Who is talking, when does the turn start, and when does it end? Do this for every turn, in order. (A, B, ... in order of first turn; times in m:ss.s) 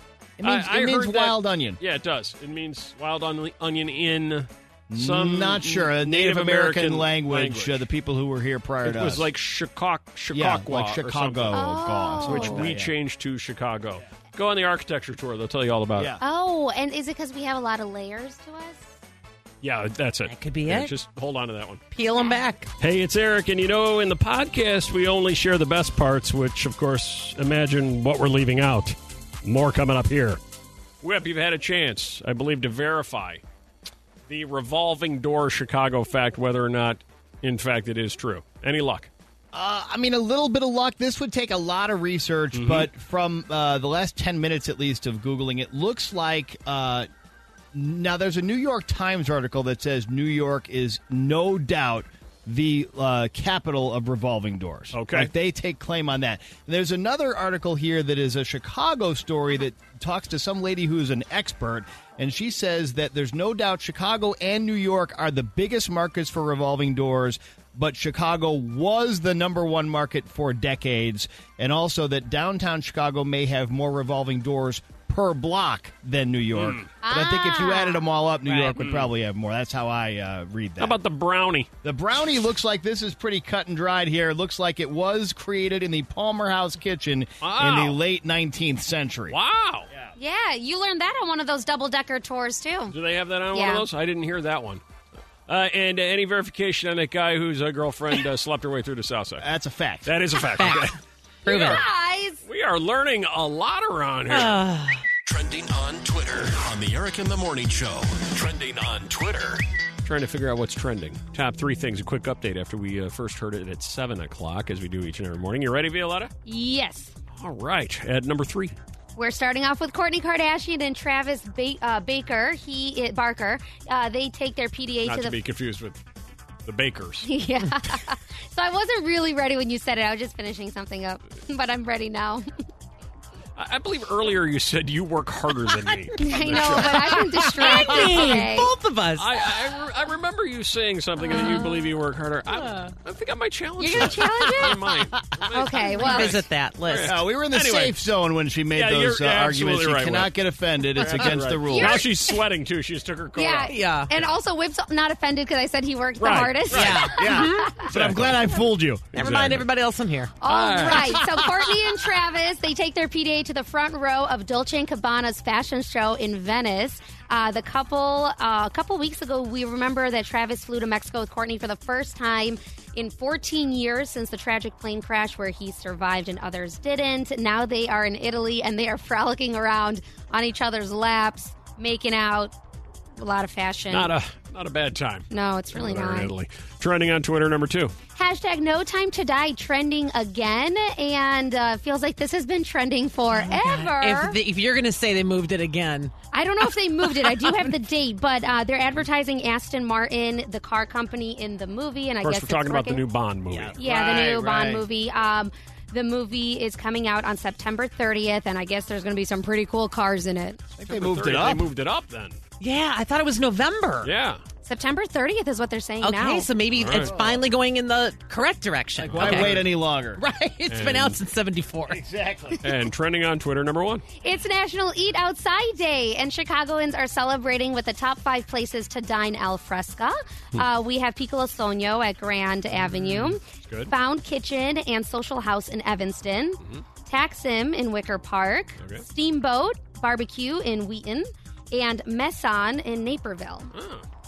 0:00.4-0:01.8 A
0:00.4-0:07.8 B
0:04.9-0:09.3 A
0:08.8-0:11.7 B
0:10.3-0:12.9 A
0:11.5-0:12.6 C
0:12.2-0:16.1 B
0:15.9-0:16.2 A
0:16.2-0:18.9 C
0:19.6-0:21.8 B
0:20.2-0:20.9 D
0:21.9-0:22.7 D
0:22.8-0:30.4 B
0:31.0-0:33.4 B
0:34.3-0:39.1 B
0:39.5-0:47.1 A
0:42.5-0:42.9 B
0:47.7-1:21.0 A
0:54.9-0:55.3 B
1:16.6-1:16.9 B
1:17.0-1:18.1 C
1:18.4-1:18.8 D
1:18.8-1:19.1 B
1:20.8-1:21.7 B
1:21.8-1:29.4 A
1:27.4-1:28.0 B
1:29.3-1:29.9 B
1:30.2-1:33.0 C
1:32.9-1:34.8 B
1:33.5-1:33.8 C
1:35.5-1:39.4 B
1:39.4-1:40.1 A
1:40.0-1:41.0 B
1:40.4-1:41.8 D
1:41.4-1:42.4 C
1:41.6-1:41.8 B
1:42.4-1:44.6 B
1:44.3-1:45.0 D
1:45.2-1:49.6 E
1:50.0-1:56.3 B
1:56.4-1:57.1 C
1:57.3-1:58.7 B
1:59.2-2:05.4 C
2:05.0-2:06.0 B
2:06.6-2:07.3 B
2:07.2-2:12.4 C
2:13.6-2:18.2 B
2:15.8-2:19.7 D
2:16.2-2:18.7 C
2:19.2-2:27.9 B
2:21.3-2:21.7 C
2:21.3-2:21.7 D
2:22.5-2:22.9 D
2:23.8-2:24.8 C
2:24.0-2:24.7 A
2:25.5-2:26.4 C
2:26.0-2:27.2 D
2:27.0-2:32.0 A
2:28.7-2:30.3 B
2:30.9-2:34.3 B
2:31.6-2:32.0 C
2:33.4-2:37.9 C
2:33.7-2:34.1 D
2:36.2-2:39.7 B
2:36.7-2:37.8 D
2:37.1-2:39.4 A
2:39.1-2:40.3 D
2:40.4-3:02.5 C
2:40.4-2:41.2 B
3:03.2-3:04.1 C
3:03.9-3:07.9 B
3:05.3-3:06.3 C
3:08.1-3:14.4 C
3:13.3-3:16.1 D
3:16.3-3:23.0 C
3:17.2-3:17.7 D
3:22.2-3:23.8 B
3:23.8-3:24.8 A
3:23.8-3:30.6 C
3:30.8-3:31.7 A
3:30.9-3:32.4 B
3:32.6-3:34.1 D
3:34.0-3:34.4 B
3:34.6-3:36.5 C
3:36.0-3:42.0 D
3:36.7-3:37.1 B
3:37.0-3:37.4 A
3:39.0-3:39.7 B
3:39.1-3:40.2 A
3:40.7-3:41.2 B
3:41.9-3:42.6 A
3:42.6-3:44.0 B
3:44.2-4:03.7 C
3:52.8-3:53.9 B
4:03.7-4:04.0 B